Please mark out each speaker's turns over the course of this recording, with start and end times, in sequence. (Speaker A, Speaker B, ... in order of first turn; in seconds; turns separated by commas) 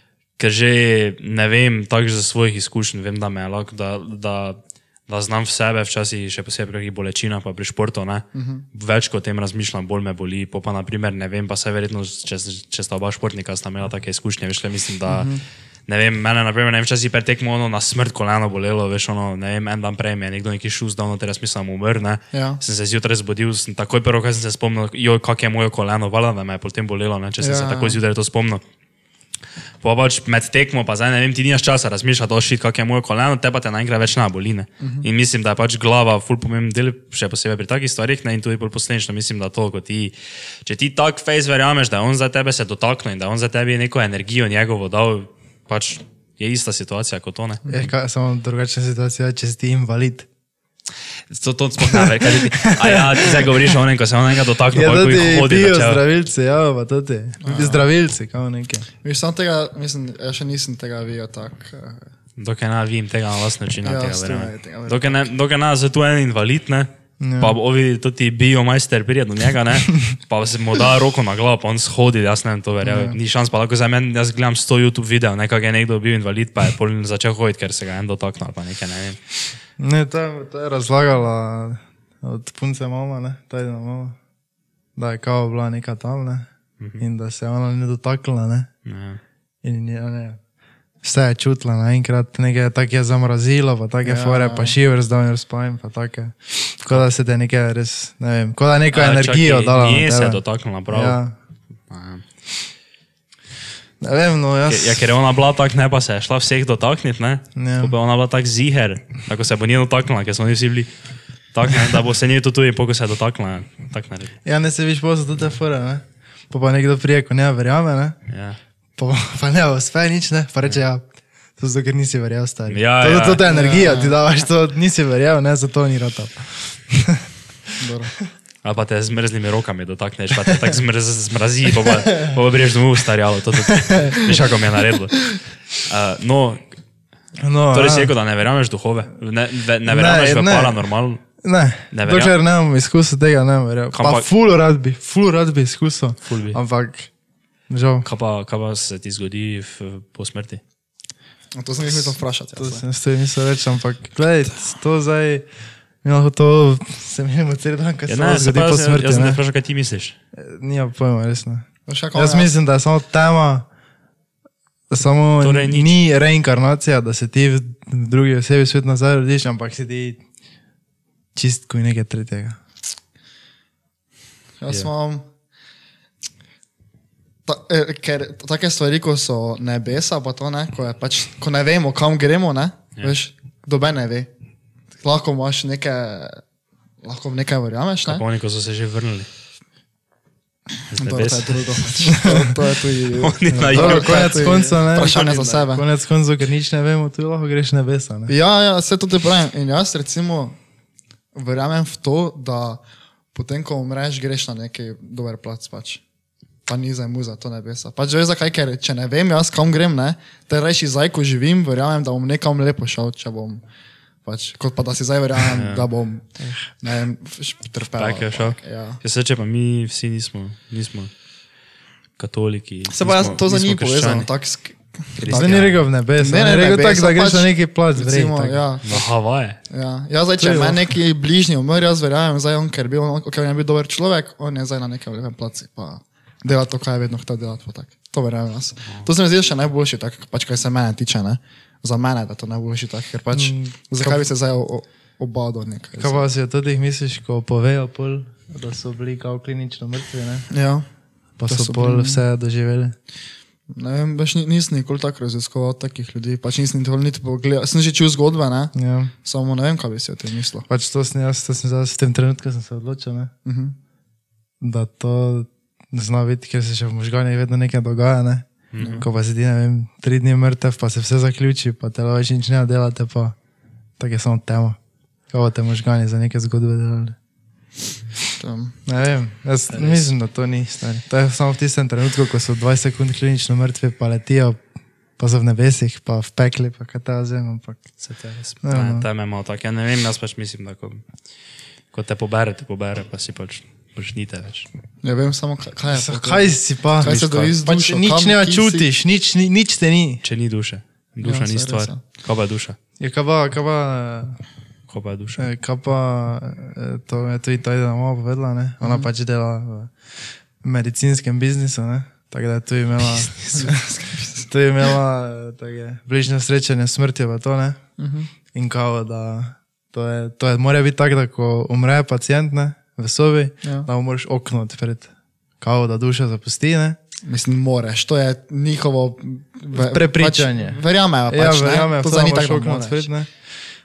Speaker A: 0.4-15.3, Speaker B: 8.3-8.6, Speaker B: 15.1-15.4, Speaker A: 15.9-28.6, Speaker B: 22.3-22.6, Speaker B: 27.4-28.0, Speaker A: 29.8-47.8, Speaker B: 34.8-35.1, Speaker C: 47.7-50.3, Speaker A: 51.3-56.0, Speaker C: 51.8-53.7, Speaker C: 54.7-58.9, Speaker B: 57.4-57.8, Speaker B: 59.0-62.0, Speaker A: 62.4-79.2, Speaker B: 63.8-65.3, Speaker C: 67.2-67.6, Speaker C: 72.8-73.2, Speaker C: 79.8-84.2, Speaker C: 85.0-86.5, Speaker C: 87.0-88.7, Speaker A: 88.8-89.2, Speaker C: 89.6-90.4, Speaker C: 91.0-101.3, Speaker B: 94.0-94.7, Speaker A: 98.9-101.2, Speaker A: 101.9-102.2, Speaker C: 104.0-105.1, Speaker A: 104.7-110.9, Speaker C: 107.5-107.9, Speaker A: 111.5-114.3, Speaker C: 114.4-118.2, Speaker A: 118.3-118.6, Speaker C: 119.0-121.0, Speaker C: 121.6-127.2, Speaker A: 122.7-123.5, Speaker B: 123.5-124.2, Speaker B: 127.8-128.1, Speaker A: 128.6-136.6, Speaker C: 133.8-134.3, Speaker C: 137.4-138.1, Speaker A: 137.7-141.2, Speaker C: 139.8-140.9, Speaker C: 141.4-147.1, Speaker A: 141.9-142.3, Speaker A: 143.9-144.3, Speaker A: 146.3-146.6, Speaker C: 147.7-148.1, Speaker A: 148.0-150.6, Speaker B: 151.5-152.8, Speaker C: 152.5-155.4, Speaker C: 156.0-159.4, Speaker A: 158.1-160.2, Speaker C: 160.3-163.7, Speaker B: 161.9-162.5, Speaker C: 164.9-170.2, Speaker A: 165.4-165.9, Speaker C: 171.3-172.6, Speaker B: 174.6-175.3, Speaker B: 177.4-184.3, Speaker B: 185.0-186.4, Speaker B: 187.0-188.2, Speaker A: 188.0-189.3, Speaker A: 190.9-191.8, Speaker B: 190.9-195.8, Speaker C: 192.2-192.5, Speaker A: 193.2-195.6, Speaker C: 193.5-198.3, Speaker B: 198.3-200.6, Speaker B: 201.3-202.8, Speaker B: 203.3-206.0, Speaker B: 206.7-213.6, Speaker B: 214.2-216.3, Speaker A: 215.5-215.9, Speaker B: 216.8-219.0, Speaker A: 217.9-221.1, Speaker A: 222.2-224.3, Speaker B: 222.9-229.1, Speaker A: 225.2-225.8, Speaker C: 225.3-228.6, Speaker A: 228.8-229.6, Speaker B: 229.7-246.3, Speaker C: 230.4-230.9, Speaker C: 243.3-244.2, Speaker C: 246.0-250.5, Speaker B: 250.5-250.8, Speaker C: 251.4-252.9, Speaker B: 251.4-252.2, Speaker B: 253.7-260.7, Speaker C: 258.7-259.1, Speaker C: 260.7-263.3, Speaker B: 263.4-263.8, Speaker C: 264.6-273.3, Speaker A: 268.7-269.0, Speaker B: 268.8-269.1, Speaker C: 274.0-274.8, Speaker C: 275.3-277.1, Speaker B: 278.4-278.8, Speaker C: 278.9-284.6, Speaker A: 279.7-280.1, Speaker C: 285.2-287.9, Speaker A: 288.0-291.0, Speaker C: 288.6-289.1, Speaker A: 291.9-294.7, Speaker B: 295.0-298.9, Speaker C: 295.9-300.2, Speaker A: 300.2-302.8, Speaker B: 301.2-302.0, Speaker C: 303.0-304.4, Speaker A: 304.9-305.4, Speaker C: 305.4-309.9, Speaker B: 308.8-309.1, Speaker C: 310.6-313.8, Speaker A: 313.0-313.6, Speaker B: 313.5-314.5, Speaker C: 314.4-317.8, Speaker B: 318.0-318.3, Speaker C: 318.5-325.1, Speaker B: 323.6-323.9, Speaker C: 325.6-327.0, Speaker B: 327.2-333.1, Speaker C: 329.7-333.3